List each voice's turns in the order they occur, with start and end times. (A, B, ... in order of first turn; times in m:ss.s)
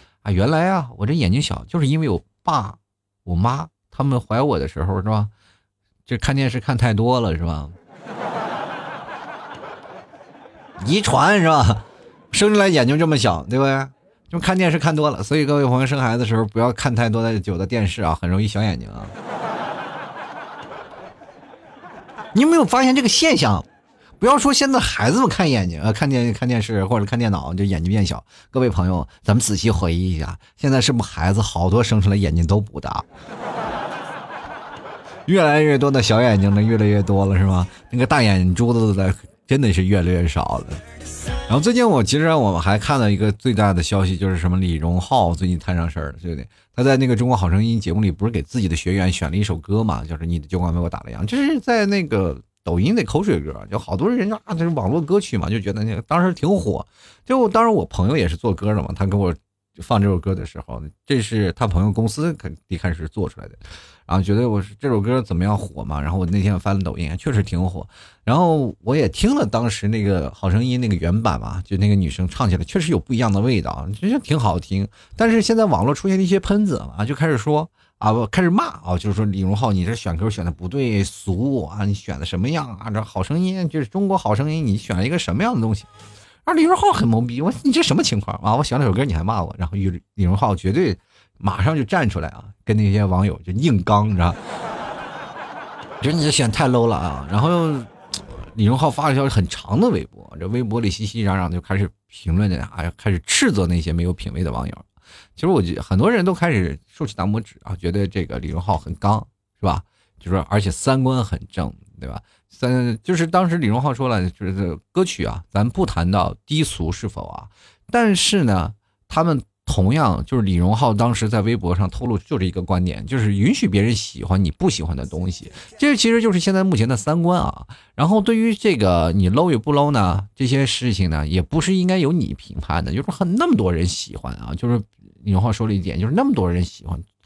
0:00.2-0:05.3 A
0:06.1-0:07.8 A
0:10.8-0:19.1 A
0:22.3-0:23.6 A
0:24.2-0:33.0 A
0:35.3-0:40.8 A
0:41.5-1:25.9 A
1:26.4-1:34.4 A
1:36.0-1:37.9 A
1:38.5-1:44.8 A
1:45.4-2:17.0 A